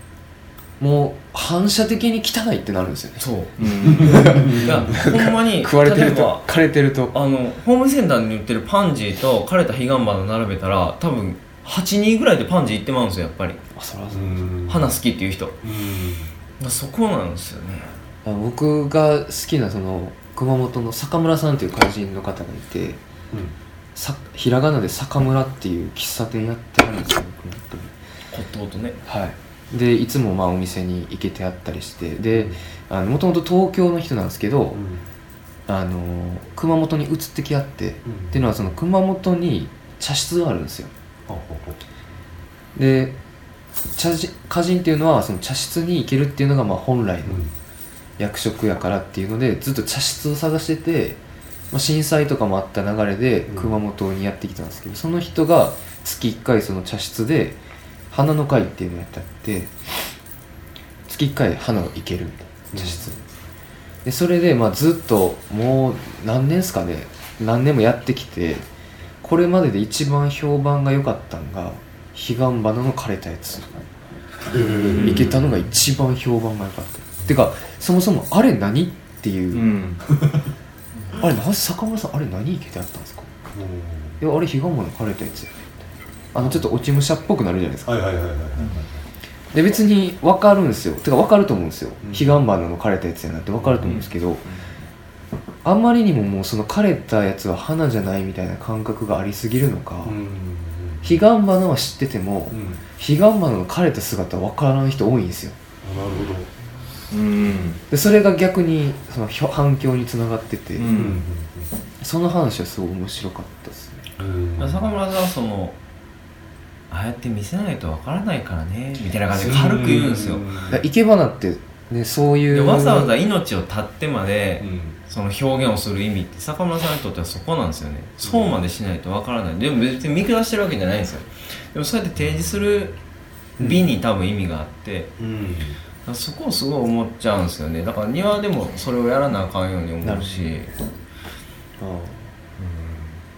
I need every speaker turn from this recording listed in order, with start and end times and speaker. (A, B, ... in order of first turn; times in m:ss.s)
0:00.8-0:07.1 A
0:03.2-0:03.5 B
0:03.6-0:04.3 C
0:03.8-0:04.8 D
0:04.5-0:06.5 B
0:07.1-0:13.6 B
0:13.7-0:14.5 A
0:14.1-0:14.9 D
0:14.7-0:15.6 B
0:15.6-0:16.3 D
0:16.6-0:18.0 B
0:18.2-0:23.0 A
0:23.9-0:27.9 A
0:28.3-0:29.0 B
0:29.0-0:34.8 A
0:32.3-0:32.6 D
0:34.7-0:35.0 D
0:35.7-0:40.9 A
0:38.0-0:38.4 D
0:41.3-0:41.8 D
0:42.7-0:43.2 A
0:43.9-0:47.4 A
0:47.2-0:47.5 D
0:48.2-0:51.2 A
0:51.7-0:57.6 A
0:53.5-0:53.8 D
0:58.1-0:59.7 A
1:01.1-1:03.1 A
1:02.7-1:03.2 D
1:04.0-1:08.6 A
1:09.2-1:13.8 A
1:14.5-1:15.6 D
1:14.8-1:15.4 C
1:14.9-1:19.7 A
1:19.5-1:20.0 C
1:20.1-1:20.5 D
1:21.2-1:23.3 A
1:23.5-1:24.2 D
1:24.2-1:25.6 A
1:26.3-1:27.9 A
1:27.8-1:29.0 D
1:29.5-1:34.4 A
1:32.0-1:32.4 D
1:33.6-1:34.0 D
1:35.6-1:40.2 A
1:40.0-1:41.2 D
1:41.0-1:45.6 A
1:42.5-1:42.8 D
1:45.8-1:46.5 D
1:47.1-1:47.8 C
1:47.9-1:51.1 A
1:50.8-1:51.2 C
1:50.9-1:51.7 D
1:52.0-1:54.0 A
1:54.2-1:54.9 D
1:54.6-1:55.8 B
1:56.9-2:00.5 B
1:59.3-2:00.8 D
2:00.7-2:03.1 A
2:02.5-2:13.0 B
2:04.6-2:05.0 D
2:08.2-2:08.6 D
2:13.6-2:15.1 B
2:13.6-2:13.8 D
2:15.2-2:15.8 D
2:16.0-2:20.7 B
2:20.0-2:20.7 A
2:21.8-2:22.3 A
2:22.6-2:23.2 C